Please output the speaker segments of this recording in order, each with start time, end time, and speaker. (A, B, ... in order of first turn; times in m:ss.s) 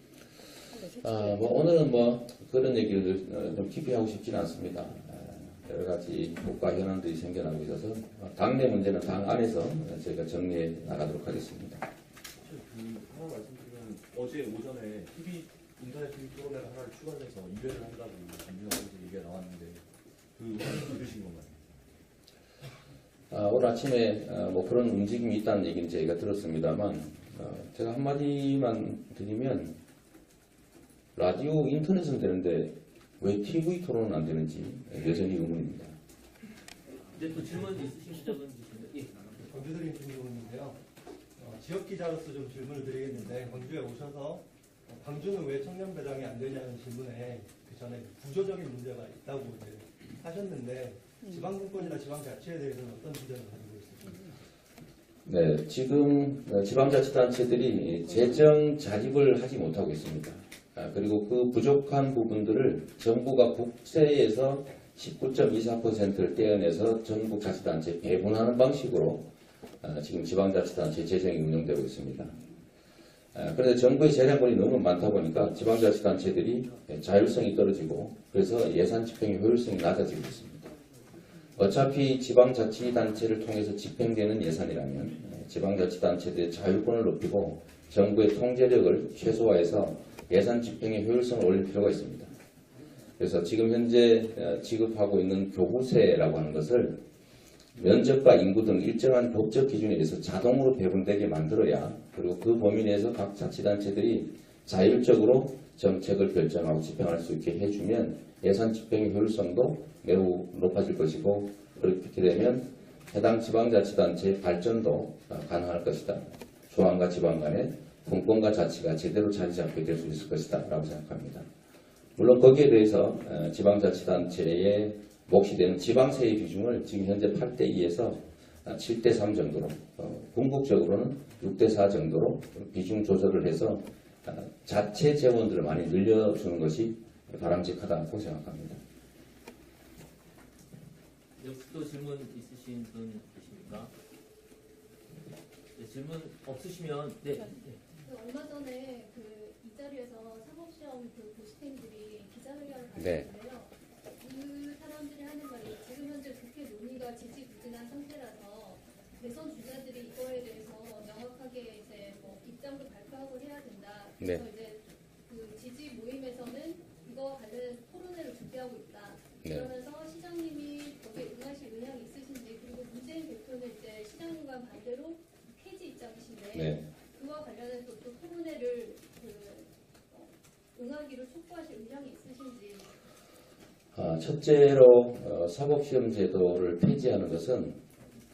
0:00.9-0:11.8 A
0:12.4-0:19.8 B
0:20.4-0:21.7 B
0:23.3-0:29.8 A
0:31.1-0:35.9 A
0:37.1-0:39.4 C
0:39.5-0:40.8 D
0:41.4-0:54.3 D
0:55.2-1:09.3 A
1:09.8-1:12.3 A
1:13.3-1:20.7 A
1:21.6-1:32.3 A
1:33.2-1:37.0 A
1:37.8-2:01.5 A
2:02.2-2:18.8 A
2:21.4-2:23.9 C
2:25.8-2:27.8 C
2:28.0-3:02.9 E
2:32.9-2:33.3 A
2:56.5-2:56.8 A
3:03.9-3:07.8 A